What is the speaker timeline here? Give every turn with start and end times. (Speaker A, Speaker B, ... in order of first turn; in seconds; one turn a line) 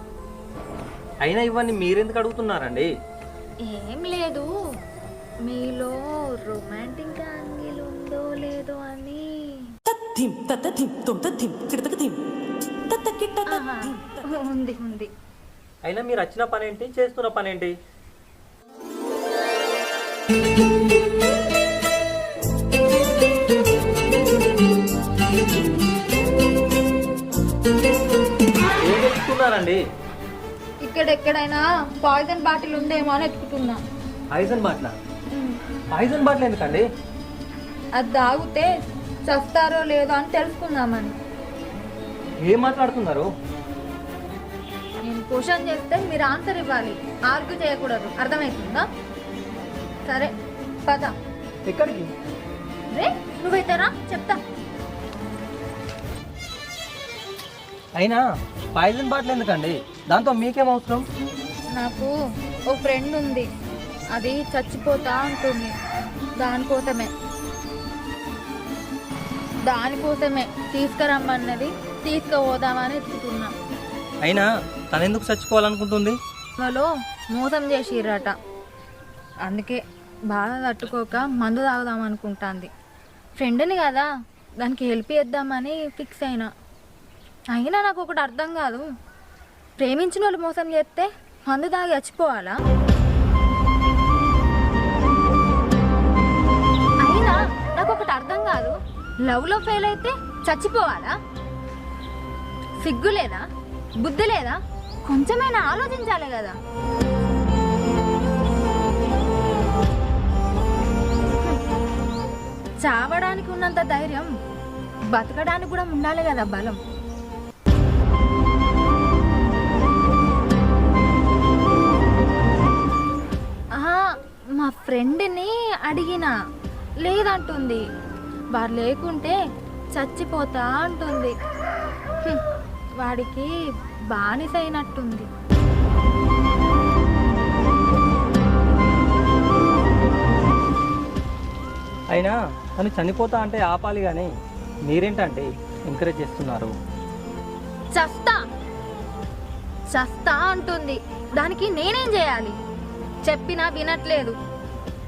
Speaker A: 1.2-2.9
Speaker B: 3.6-4.5
Speaker B: 5.4-9.8
Speaker C: 9.9-12.2
Speaker C: 12.9-13.4
Speaker B: 13.4-15.1
Speaker A: 15.8-17.7
Speaker A: 28.8-29.8
Speaker B: 30.8-33.8
Speaker A: 34.3-35.0
Speaker B: 35.3-35.6
Speaker A: 35.9-36.9
Speaker B: 37.9-38.7
Speaker B: 39.2-41.1
Speaker A: 42.4-43.3
Speaker B: 45.0-48.8
Speaker B: 50.1-50.3
Speaker B: 50.9-51.1
Speaker A: 51.6-52.1
Speaker B: 52.9-54.4
Speaker A: 57.9-58.2
Speaker A: 58.7-61.0
Speaker B: 61.7-62.1
Speaker B: 62.7-63.5
Speaker B: 64.1-65.7
Speaker B: 66.4-67.1
Speaker B: 69.6-73.5
Speaker A: 74.2-76.2
Speaker B: 76.6-78.3
Speaker B: 79.5-82.7
Speaker B: 83.4-84.1
Speaker B: 84.6-86.5
Speaker B: 87.5-88.8
Speaker B: 89.8-92.5
Speaker B: 97.0-101.2
Speaker B: 102.8-103.5
Speaker B: 104.0-106.5
Speaker B: 112.8-114.3
Speaker B: 115.1-116.8
Speaker B: 123.7-126.3
Speaker B: 127.0-127.8
Speaker B: 128.5-129.3
Speaker B: 129.9-131.3
Speaker B: 133.0-133.5
Speaker B: 134.1-135.3
Speaker A: 142.1-144.3
Speaker A: 144.8-146.7
Speaker B: 147.9-148.4
Speaker B: 149.9-152.5
Speaker B: 153.2-154.3